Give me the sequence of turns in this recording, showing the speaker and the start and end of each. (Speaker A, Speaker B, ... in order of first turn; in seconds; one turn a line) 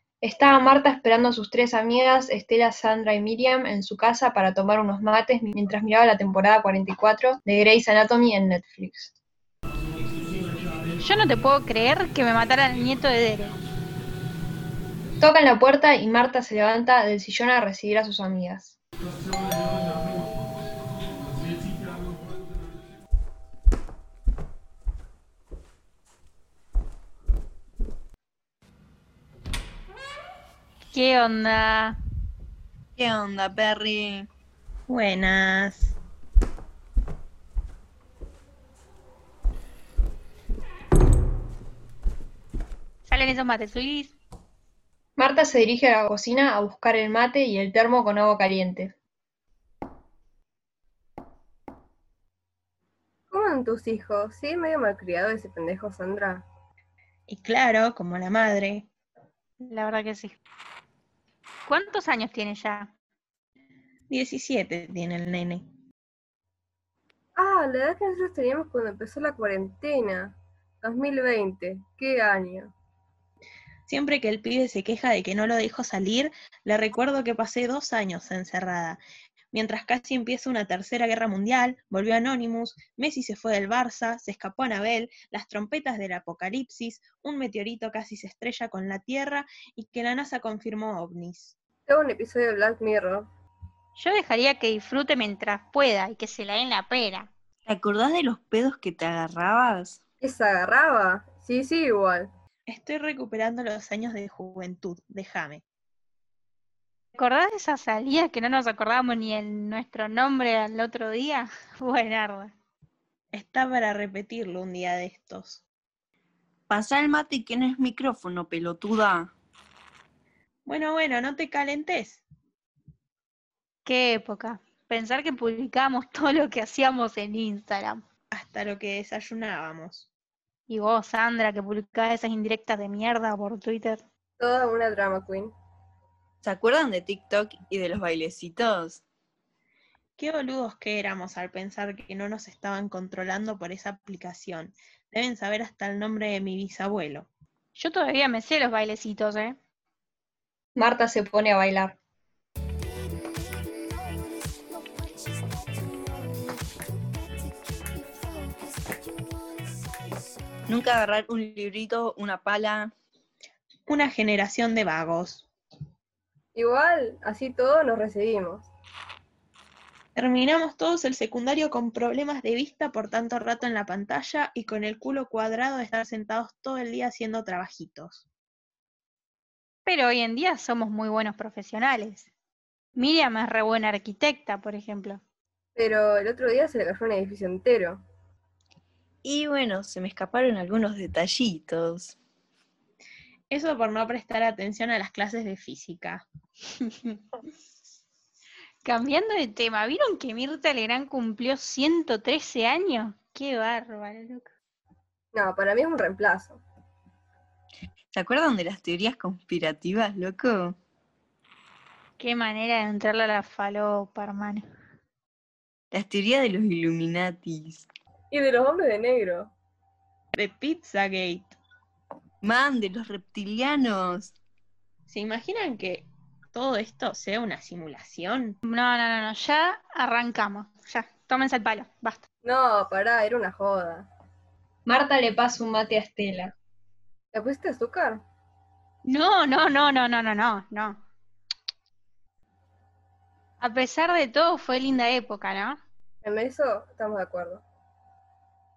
Speaker A: 0.2-9.2
Speaker B: 11.0-13.6
Speaker A: 15.2-18.8
Speaker B: 30.9-32.0
Speaker C: 33.0-34.3
Speaker D: 34.9-36.0
Speaker B: 43.0-44.1
Speaker A: 45.2-48.9
Speaker E: 53.3-56.4
Speaker D: 57.3-58.9
Speaker B: 59.6-60.4
Speaker B: 61.6-62.9
Speaker D: 64.1-65.7
Speaker E: 67.3-72.7
Speaker D: 73.9-79.0
Speaker D: 79.5-91.5
Speaker E: 91.9-93.3
Speaker B: 94.0-97.3
Speaker C: 97.7-100.0
Speaker E: 100.2-102.3
Speaker D: 102.7-105.6
Speaker B: 107.1-112.5
Speaker D: 113.3-115.6
Speaker C: 116.7-119.3
Speaker D: 120.7-122.2
Speaker B: 123.8-128.0
Speaker D: 128.3-130.1
Speaker B: 130.7-134.0
Speaker E: 134.4-135.5
Speaker C: 136.4-139.0
Speaker D: 140.2-147.3
Speaker B: 147.7-149.6
Speaker A: 150.7-152.0
Speaker C: 160.7-162.9
Speaker D: 163.9-165.5
Speaker E: 166.5-168.7
Speaker D: 170.2-178.3
Speaker B: 179.8-182.3
Speaker B: 182.9-185.2
Speaker E: 185.8-188.0
Speaker C: 189.2-192.2
Speaker D: 193.5-196.2
Speaker B: 198.8-204.5
Speaker E: 205.3-206.6
Speaker C: 208.1-210.8
Speaker B: 212.2-214.6
Speaker C: 215.9-217.9
Speaker E: 218.3-219.5
Speaker D: 220.3-221.6
Speaker C: 222.4-224.3
Speaker D: 225.1-228.6
Speaker B: 228.7-232.2
Speaker E: 232.4-234.1
Speaker A: 234.8-236.5
Speaker E: 237.3-238.2
Speaker B: 239.0-241.0
Speaker B: 243.6-245.8
Speaker E: 246.2-247.6